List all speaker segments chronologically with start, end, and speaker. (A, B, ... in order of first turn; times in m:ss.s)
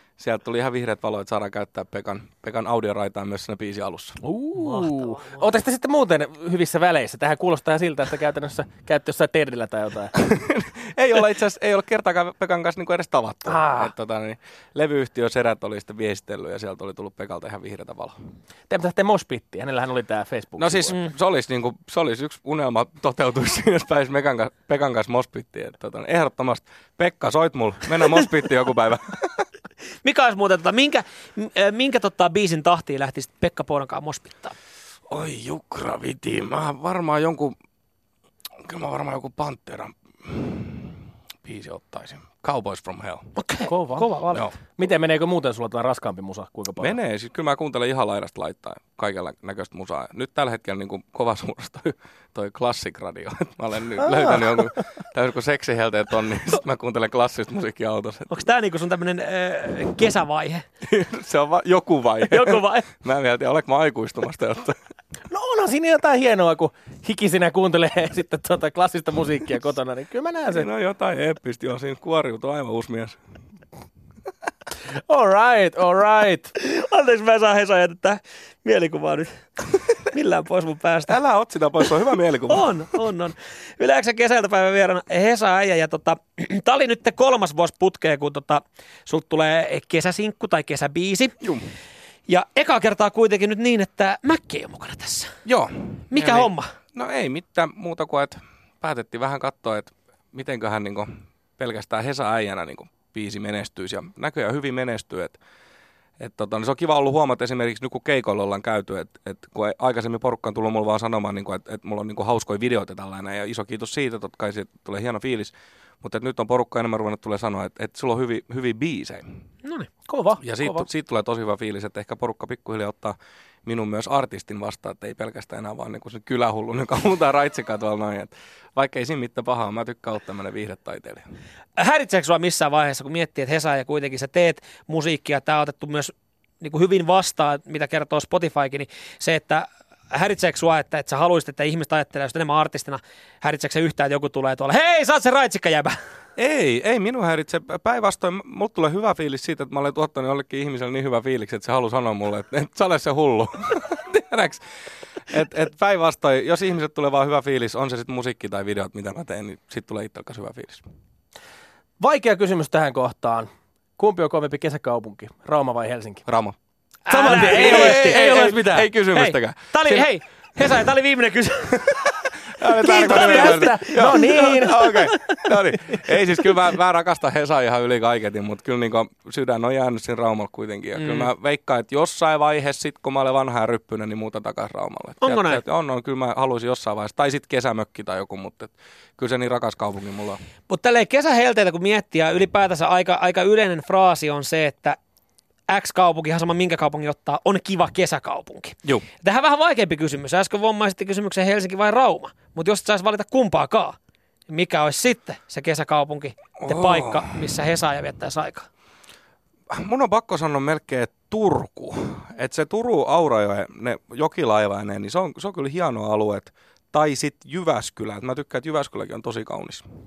0:00.2-0:04.2 A
0:04.2-0:10.1 B
0:04.6-0:05.4 C
0:10.2-0:18.2 A
0:13.5-0:13.9 B
0:18.7-0:21.0 B
0:20.6-0:29.4 A
0:30.0-0:34.5 C
0:35.1-0:37.5 A
0:38.6-0:43.3 A
0:43.4-0:44.5 C
0:43.6-0:44.1 B
0:44.6-0:47.0 B
0:46.8-0:58.4 A
0:54.0-0:54.6 B
0:58.3-1:00.6 C
1:00.8-1:04.8 A
1:02.2-1:02.9 C
1:05.3-1:10.7 B
1:10.5-1:13.2 A
1:15.1-1:16.5 B
1:16.6-1:21.1 C
1:21.1-1:23.0 A
1:22.5-1:31.4 C
1:31.4-1:31.7 A
1:32.3-1:35.4 C
1:35.4-1:45.4 A
1:36.1-1:36.7 C
1:46.2-1:59.3 A
1:59.6-2:00.1 C
2:00.1-2:00.8 B
2:00.4-2:11.2 A
2:11.8-2:25.9 C
2:26.4-2:34.6 A
2:35.2-2:40.8 A
2:42.0-2:46.2 B
2:46.2-2:46.6 A
2:47.1-2:48.2 C
2:47.1-2:48.9 B
2:47.4-2:50.1 A
2:49.1-2:55.4 C
2:52.6-3:10.4 A
2:52.8-2:54.9 B
3:01.0-3:01.3 C
3:05.2-3:05.6 C
3:10.7-3:15.0 C
3:15.7-3:24.0 C
3:24.5-3:28.7 C
3:26.6-3:27.2 A
3:29.7-3:39.8 A